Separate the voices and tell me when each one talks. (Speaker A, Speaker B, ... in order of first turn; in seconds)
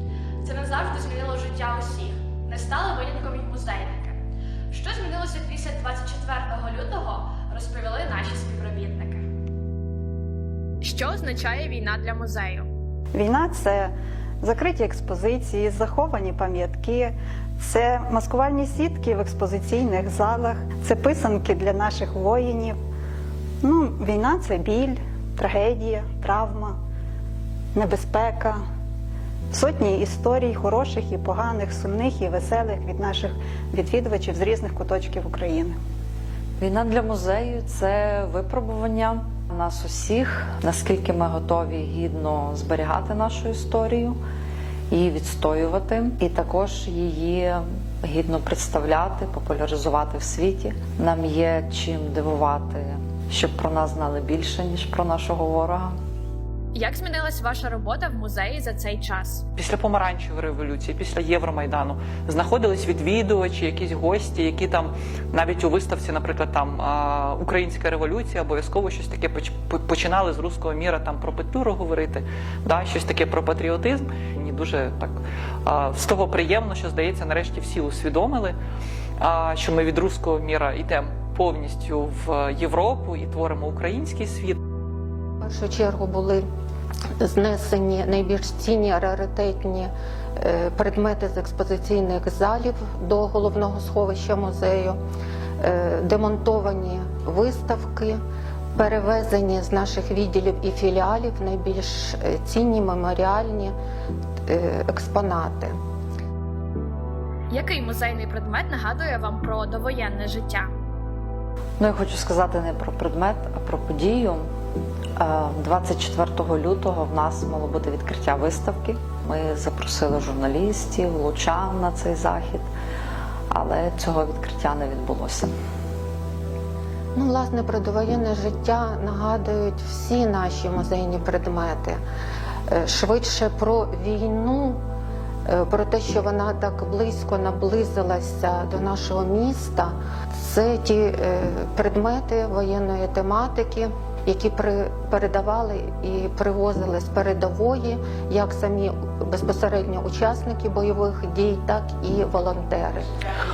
Speaker A: 0.4-4.2, 4.7-9.2, 10.8-12.7, 56.7-59.4, 107.5-110.7
Speaker B: 13.1-22.8, 23.6-26.8, 27.7-28.6, 29.5-35.8
Speaker C: 36.6-44.2, 44.9-56.0, 111.8-114.5, 115.2-122.7, 123.5-125.5
Speaker D: 59.5-78.5, 79.2-84.6
Speaker E: 85.4-86.4, 87.2-95.0, 95.6-98.2, 98.8-103.7, 104.5-105.7, 127.1-132.0, 132.7-134.8, 135.4-153.1